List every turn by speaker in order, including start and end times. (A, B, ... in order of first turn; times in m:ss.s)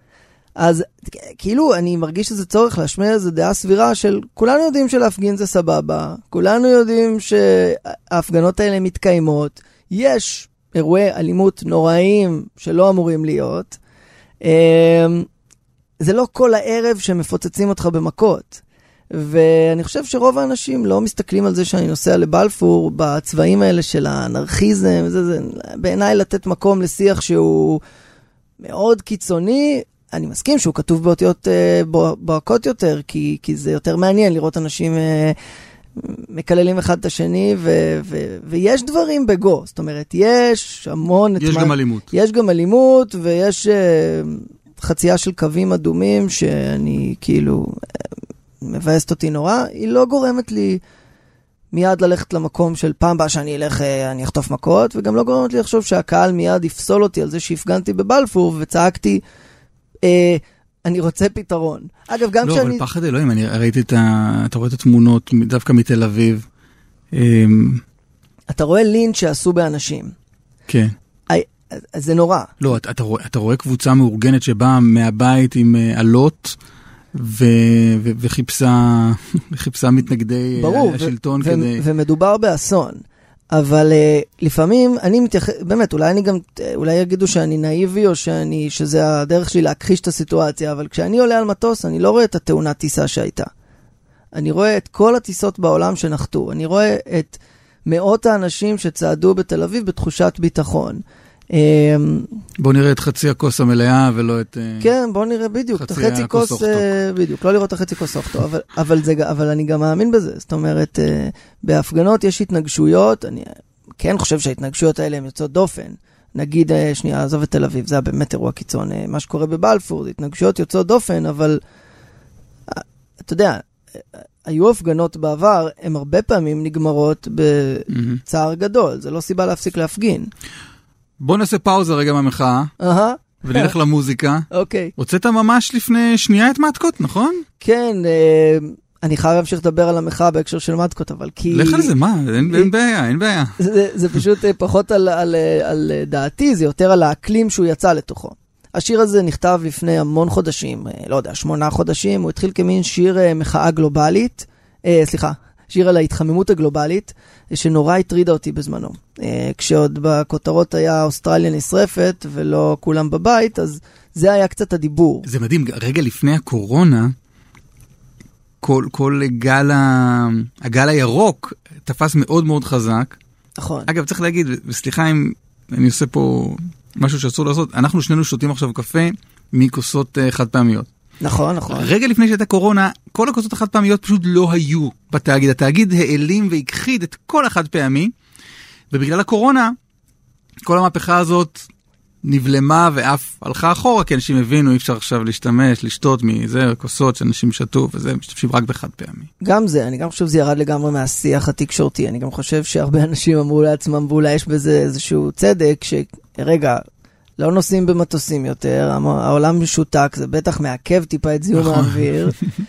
0:00.6-0:13.8 A
0:14.4-0:15.3 A
0:16.0-0:18.6 A
0:19.1-0:27.8 A
0:28.6-0:35.4 A
0:36.0-0:48.1 A
0:41.4-0:42.1 B
0:48.6-0:50.8 A
0:51.7-0:59.2 A
1:00.0-1:02.8 A
1:02.4-1:06.5 B
1:07.1-1:07.8 B
1:08.5-1:10.1 A
1:10.7-1:10.9 B
1:11.3-1:12.6 A
1:12.6-1:16.6 B
1:17.1-1:21.8 B
1:20.6-1:23.0 A
1:23.5-1:33.5 A
1:34.4-1:41.0 A
1:41.5-1:42.3 A
1:42.6-1:44.9 B
1:44.8-2:01.6 A
1:45.8-1:46.9 B
2:02.7-2:10.3 A
2:07.9-2:08.2 B
2:11.2-2:12.7 B
2:12.8-2:13.7 A
2:13.4-2:14.5 B
2:14.5-2:14.9 A
2:15.0-2:17.4 B
2:17.6-2:21.9 A
2:21.5-2:23.5 B
2:23.6-2:45.3 A
2:45.2-2:47.1 B
2:48.6-2:53.2 B
2:53.6-2:53.9 A
2:53.9-3:00.9 B
3:01.2-3:01.9 A
3:01.7-3:08.1 B
3:08.9-3:09.8 B
3:10.6-3:11.6 B
3:12.2-3:19.3 B
3:19.4-3:26.8 A
3:27.4-3:32.4 A
3:31.5-3:32.5 B